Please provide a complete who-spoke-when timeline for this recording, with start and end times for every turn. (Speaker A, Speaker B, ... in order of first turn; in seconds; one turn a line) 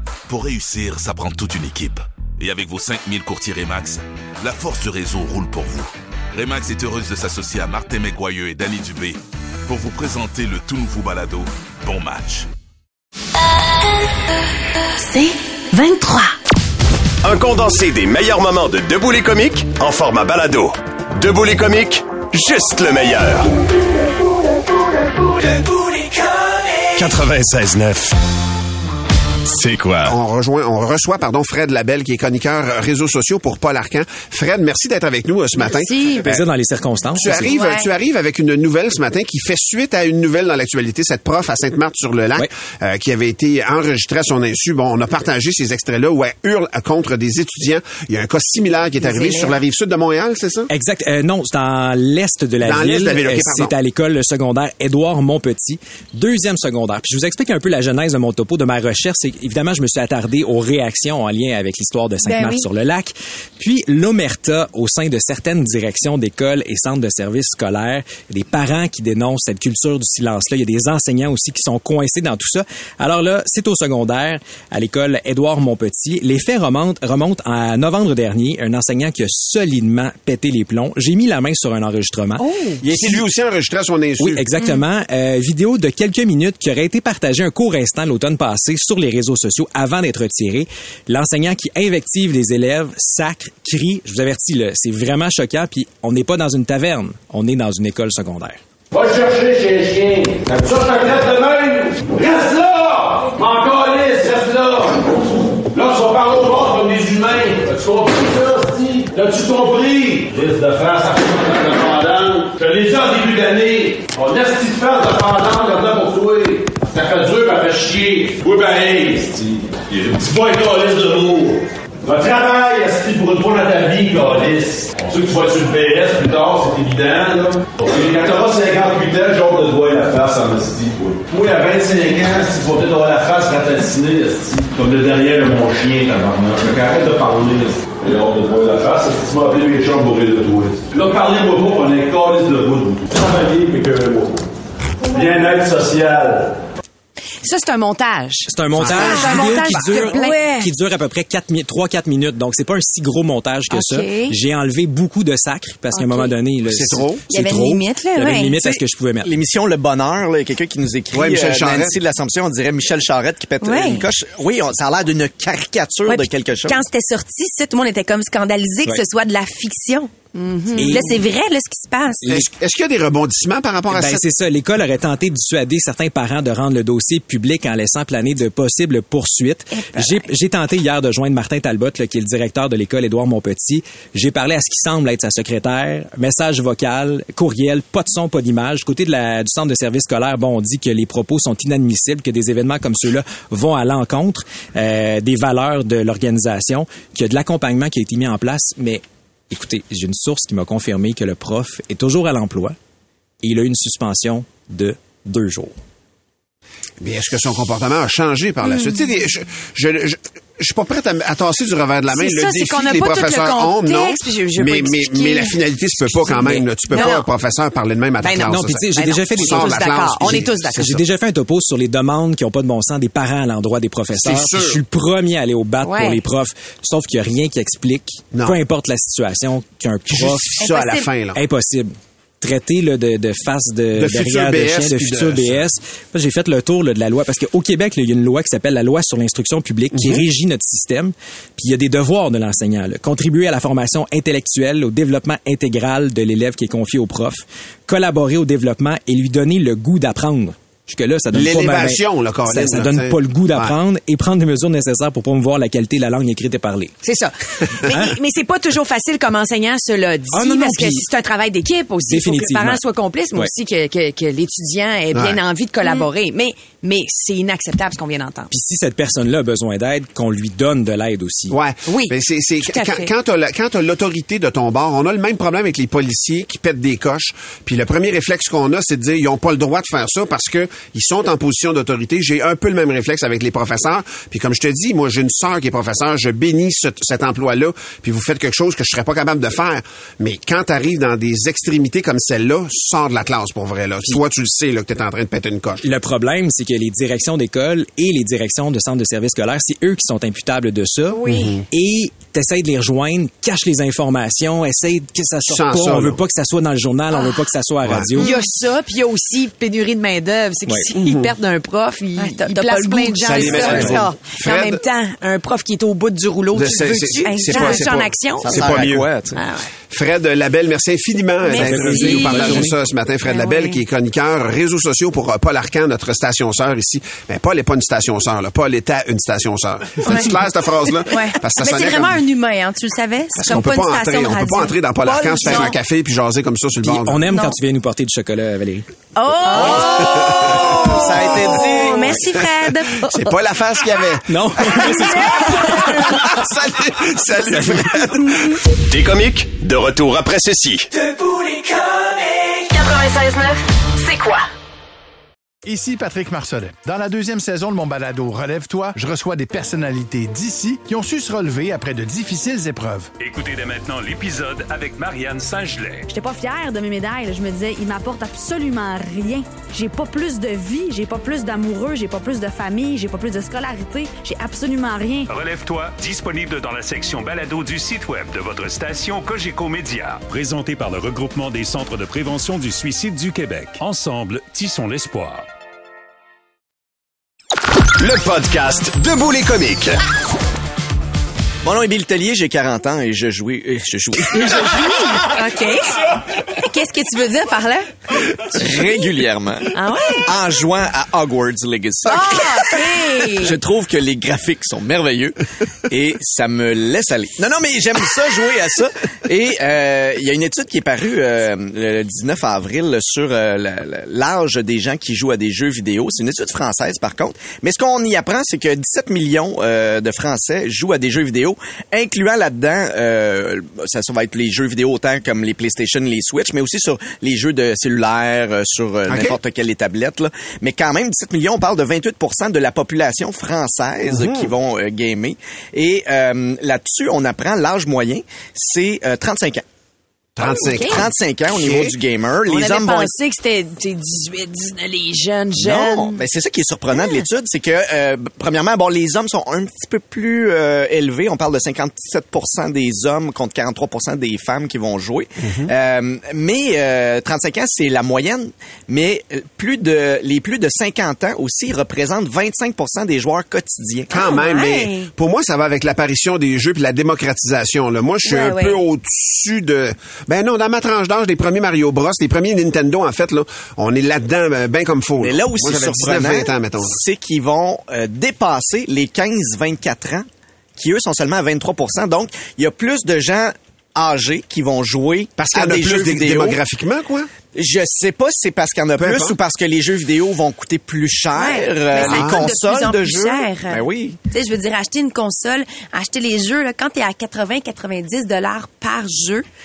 Speaker A: 0.3-12.5
Speaker B: 15.0-16.3
Speaker C: 17.2-23.5
Speaker C: 26.9-28.1
Speaker C: 29.4-30.2
Speaker D: 30.1-36.4
Speaker E: 36.2-37.5
Speaker D: 37.2-50.7
Speaker B: 37.3-37.9
Speaker B: 49.1-49.5
Speaker E: 50.7-83.2
Speaker D: 52.6-53.7
Speaker B: 62.2-62.7
Speaker F: 82.4-82.8
Speaker D: 82.8-84.4
Speaker E: 84.2-98.6
Speaker G: 98.9-144.4
Speaker G: 145.0-146.5
Speaker F: 147.4-150.7
Speaker E: 148.5-159.3
Speaker D: 148.8-149.1
Speaker B: 149.0-150.0
Speaker F: 153.8-154.2
Speaker D: 156.7-157.2
Speaker B: 157.3-158.6
Speaker H: 158.6-166.8
Speaker D: 161.1-162.0
Speaker B: 163.6-164.1
Speaker B: 166.1-172.3
Speaker E: 170.8-171.2
Speaker D: 172.2-174.2
Speaker E: 173.9-202.8
Speaker B: 179.7-180.2
Speaker E: 203.4-205.8
Speaker D: 207.0-220.9
Speaker F: 212.1-215.6
Speaker E: 216.3-216.7
Speaker F: 216.9-217.2
Speaker B: 216.9-217.2
Speaker F: 218.2-221.0
Speaker E: 218.4-230.6
Speaker D: 224.1-224.8
Speaker D: 228.3-228.6
Speaker D: 230.1-231.4
Speaker B: 230.6-231.1
Speaker E: 231.3-256.9
Speaker D: 233.9-235.7
Speaker D: 239.9-240.2
Speaker D: 251.3-253.8
Speaker F: 257.0-268.5
Speaker E: 260.3-261.1
Speaker E: 262.1-262.8
Speaker D: 265.1-265.4
Speaker E: 268.5-271.6
Speaker D: 271.5-295.8
Speaker F: 271.9-273.1
Speaker E: 295.8-308.3
Speaker D: 301.3-301.6
Speaker D: 305.5-306.2
Speaker D: 307.8-308.1
Speaker F: 308.2-318.7
Speaker D: 310.9-311.3
Speaker B: 312.2-314.0
Speaker D: 313.2-314.8
Speaker H: 313.6-314.0
Speaker D: 316.5-319.1
Speaker B: 317.2-317.9
Speaker H: 318.4-319.4
Speaker F: 319.4-319.7
Speaker D: 319.9-332.2
Speaker B: 321.5-322.7
Speaker F: 321.9-322.5
Speaker B: 323.3-323.8
Speaker B: 330.0-330.4
Speaker B: 331.1-335.8
Speaker D: 333.3-337.2
Speaker E: 336.8-338.9
Speaker B: 337.2-337.6
Speaker B: 339.1-343.1
Speaker H: 339.5-340.3
Speaker D: 339.9-340.9
Speaker H: 340.8-342.2
Speaker D: 343.0-348.6
Speaker E: 344.3-345.9
Speaker C: 348.8-350.9
Speaker F: 351.1-351.8
Speaker I: 355.6-363.1
Speaker J: 363.2-366.1
Speaker K: 366.1-375.3
Speaker J: 375.3-385.5
Speaker C: 387.9-389.9
Speaker H: 391.6-394.9
Speaker B: 395.2-395.8
Speaker F: 395.4-395.6
Speaker B: 396.5-397.9
Speaker H: 398.5-402.8
Speaker F: 399.7-400.2
Speaker B: 402.1-403.5
Speaker H: 403.3-439.6
Speaker D: 429.1-429.4
Speaker D: 434.1-434.5
Speaker D: 440.4-441.9
Speaker H: 440.7-443.1
Speaker F: 442.5-446.2
Speaker H: 445.6-464.1
Speaker D: 455.4-455.7
Speaker D: 464.1-477.0
Speaker B: 464.1-465.1
Speaker B: 468.2-468.8
Speaker H: 475.2-480.2
Speaker H: 480.8-486.6
Speaker D: 485.4-487.3
Speaker H: 487.5-494.2
Speaker D: 489.0-489.4
Speaker B: 491.3-499.4
Speaker D: 492.0-492.5